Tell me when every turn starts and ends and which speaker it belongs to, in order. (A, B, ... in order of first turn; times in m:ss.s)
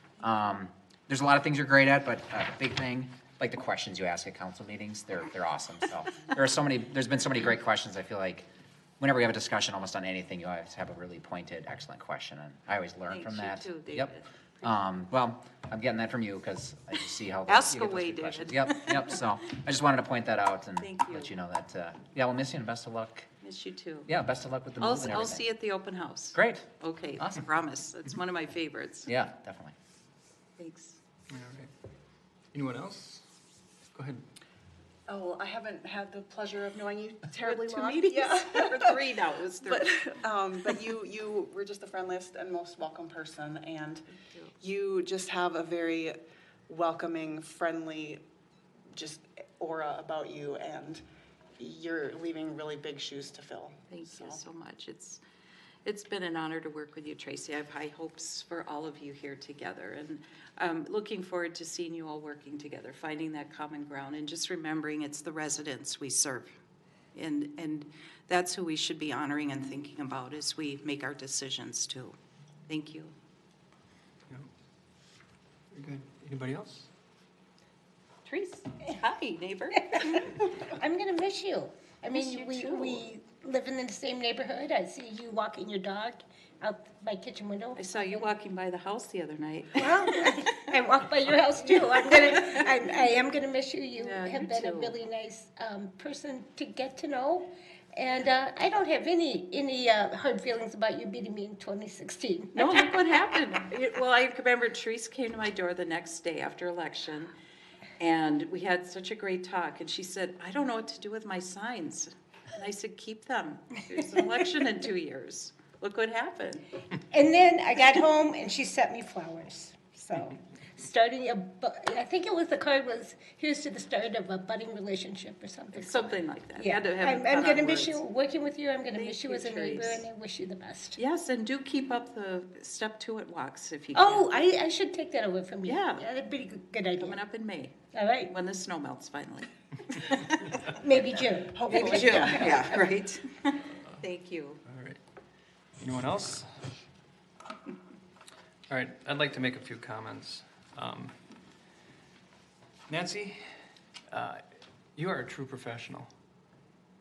0:00.2-0:08.5 A
0:09.0-0:23.3 A
0:13.1-0:14.7 B
0:17.5-0:19.2 B
0:20.8-0:21.3 B
0:23.4-0:24.1 B
0:24.1-0:25.5 A
0:24.8-0:29.1 B
0:26.3-0:27.4 A
0:29.1-0:29.7 A
0:30.6-0:31.0 B
0:31.3-0:31.7 C
0:32.5-0:33.3 C
0:34.0-0:34.2 C
0:35.1-0:39.0 D
0:37.4-0:39.9 B
0:39.6-0:44.1 D
0:44.6-0:46.2 D
0:46.7-0:48.2 D
0:48.9-0:51.0 D
0:51.6-0:54.4 D
0:53.9-0:55.2 B
0:55.8-1:06.5 B
1:07.2-1:12.2 B
1:12.7-1:13.1 B
1:15.7-1:16.9 C
1:18.2-1:20.3 B
1:19.8-1:28.3 E
1:22.0-1:23.1 B
1:27.8-1:30.5 B
1:29.7-1:43.2 E
1:31.6-1:33.0 B
1:34.0-1:35.0 B
1:42.5-1:47.3 B
1:48.0-1:56.7 B
1:57.0-2:11.0 E
2:05.7-2:08.0 B
2:08.9-2:10.0 B
2:11.0-2:14.3 B
2:13.9-2:17.2 E
2:15.6-2:16.0 B
2:17.0-2:17.7 B
2:17.9-2:18.3 E
2:18.3-2:20.7 B
2:20.7-2:22.9 E
2:21.5-2:22.7 D
2:21.8-2:24.6 B
2:24.6-2:25.0 C
2:25.8-2:26.5 C
2:28.7-2:31.2 C
2:32.9-2:33.4 C
2:34.1-2:34.4 C
2:35.0-2:36.1 C